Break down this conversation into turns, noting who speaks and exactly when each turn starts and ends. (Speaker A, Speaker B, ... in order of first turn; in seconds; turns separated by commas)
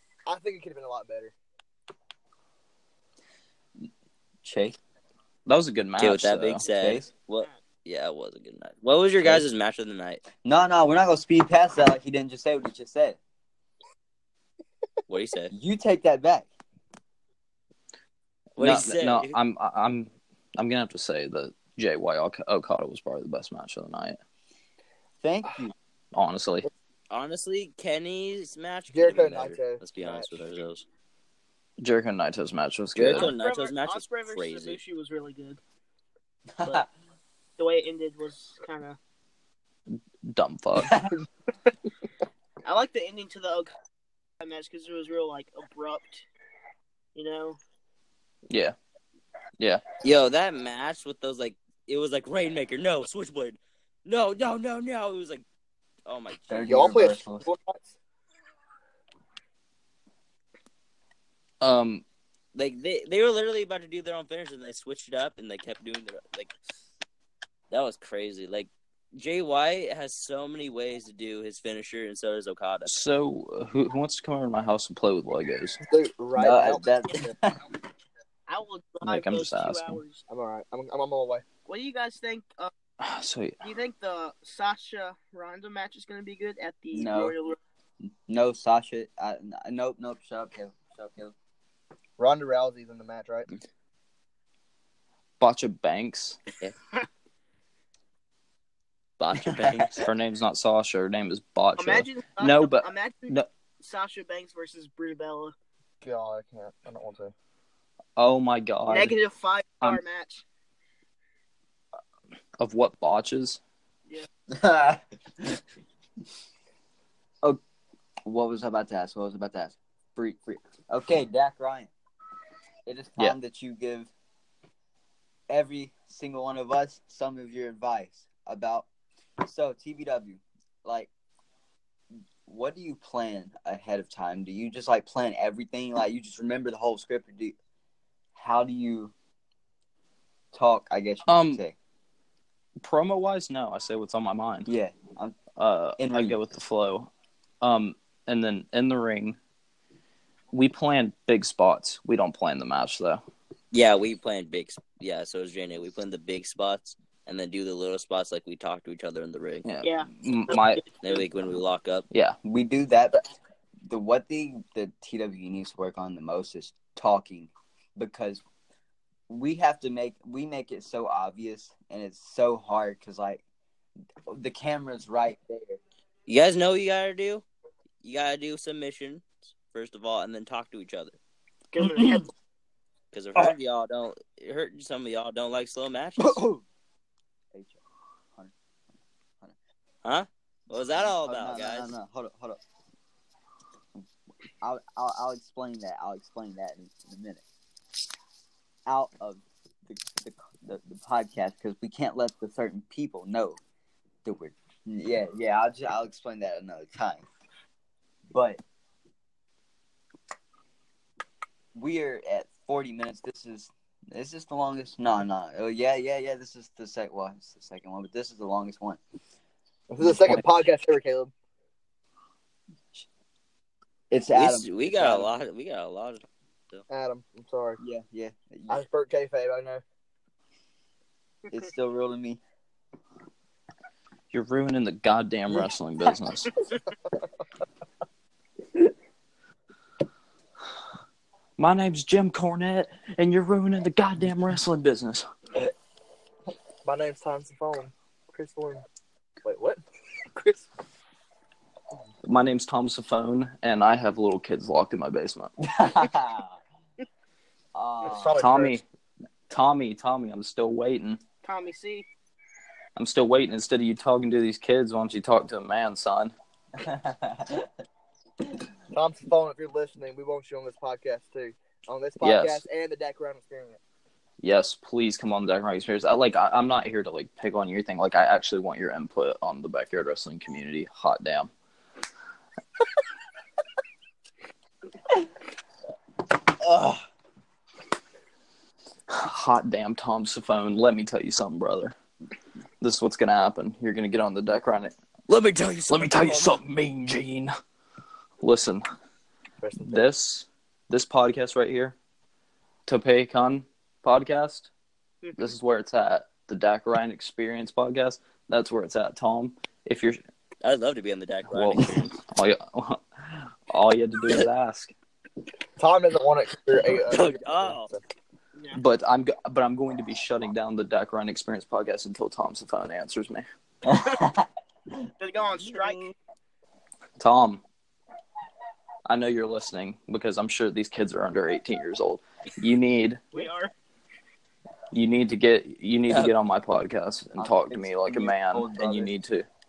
Speaker A: 0.2-1.3, Speaker B: 4.4-4.8, Speaker C: 5.5-6.6, Speaker D: 6.0-10.2, Speaker B: 6.7-7.1, Speaker B: 10.4-13.2, Speaker D: 15.1-15.5, Speaker B: 15.5-16.5, Speaker D: 18.6-19.3, Speaker C: 18.6-24.2, Speaker B: 25.2-25.7, Speaker C: 26.1-26.7, Speaker D: 27.1-30.8, Speaker A: 28.9-30.3, Speaker C: 31.8-33.3, Speaker D: 33.0-34.8, Speaker E: 33.1-35.6, Speaker B: 36.5-36.9, Speaker E: 37.6-39.0, Speaker C: 39.9-41.0, Speaker B: 40.8-41.1, Speaker E: 42.6-43.7, Speaker E: 44.4-46.2, Speaker E: 47.1-47.6, Speaker C: 48.5-48.7, Speaker D: 50.0-55.4, Speaker D: 56.0-56.9, Speaker B: 56.5-57.4, Speaker A: 56.7-57.8, Speaker C: 61.6-62.0, Speaker D: 62.5-66.5, Speaker D: 67.7-72.9, Speaker C: 72.8-75.8, Speaker A: 75.9-77.3, Speaker B: 76.4-77.6, Speaker E: 78.5-80.2, Speaker C: 79.0-80.0, Speaker A: 80.3-81.4, Speaker E: 81.6-82.7, Speaker C: 83.0-83.6, Speaker E: 83.6-87.6, Speaker B: 86.9-87.3, Speaker B: 88.3-91.3, Speaker A: 92.2-93.5, Speaker C: 95.4-96.4, Speaker D: 99.2-100.0, Speaker B: 99.5-99.8, Speaker C: 100.0-103.5, Speaker E: 101.8-105.5, Speaker A: 106.0-107.3, Speaker C: 108.2-109.2, Speaker E: 108.9-110.4, Speaker C: 112.6-113.6, Speaker B: 114.5-115.6, Speaker B: 118.2-121.9, Speaker B: 122.8-124.1, Speaker B: 125.5-128.9, Speaker B: 129.4-131.1, Speaker B: 132.4-137.5, Speaker B: 138.3-139.1, Speaker B: 140.5-141.7, Speaker C: 141.2-141.6, Speaker C: 142.8-144.7, Speaker B: 144.7-145.4, Speaker C: 145.6-147.1, Speaker B: 146.0-146.4, Speaker C: 147.6-149.4, Speaker C: 150.5-153.2, Speaker D: 153.7-159.7, Speaker C: 159.6-160.8, Speaker E: 159.8-160.9, Speaker D: 161.0-162.1, Speaker C: 162.1-162.4, Speaker B: 162.4-163.2, Speaker B: 163.8-168.4, Speaker B: 169.3-173.4, Speaker B: 174.3-175.8, Speaker D: 176.3-177.4, Speaker D: 178.0-181.2, Speaker E: 181.7-182.3, Speaker B: 181.8-182.2, Speaker D: 183.1-186.4, Speaker B: 186.2-186.6, Speaker B: 187.5-187.8, Speaker D: 190.0-191.9, Speaker B: 190.7-192.6, Speaker B: 194.6-197.4, Speaker B: 198.9-203.6, Speaker B: 204.2-207.2, Speaker B: 208.3-208.6, Speaker B: 211.7-219.0, Speaker A: 219.9-221.3, Speaker B: 220.0-220.4, Speaker B: 224.1-225.3, Speaker D: 224.3-226.8, Speaker A: 226.9-227.8, Speaker B: 227.8-228.8, Speaker A: 228.7-229.8, Speaker B: 231.5-232.4, Speaker C: 234.3-236.5, Speaker C: 241.6-245.3, Speaker A: 246.8-248.8, Speaker A: 249.4-250.6, Speaker C: 252.2-255.5, Speaker B: 255.6-256.6, Speaker B: 257.7-258.4, Speaker A: 258.0-258.8, Speaker C: 258.4-258.8, Speaker C: 259.5-261.2, Speaker E: 261.4-262.1, Speaker C: 262.9-266.3, Speaker B: 266.8-267.7, Speaker A: 268.9-273.8, Speaker C: 272.2-272.6, Speaker C: 274.4-281.5, Speaker B: 286.6-287.0, Speaker C: 289.1-291.9, Speaker C: 292.8-294.9, Speaker D: 295.3-296.6, Speaker C: 295.9-297.5, Speaker C: 298.4-298.8, Speaker A: 299.6-300.0, Speaker C: 299.8-301.9, Speaker C: 302.9-304.7, Speaker C: 305.4-310.2, Speaker D: 310.6-312.1, Speaker C: 311.5-314.9, Speaker A: 315.8-318.0, Speaker D: 317.1-317.9, Speaker C: 318.7-323.4, Speaker B: 323.9-324.5, Speaker E: 325.2-326.1, Speaker D: 325.6-326.1, Speaker C: 327.2-327.6, Speaker C: 329.1-333.4, Speaker E: 333.3-333.7, Speaker C: 334.9-339.5, Speaker B: 337.4-339.1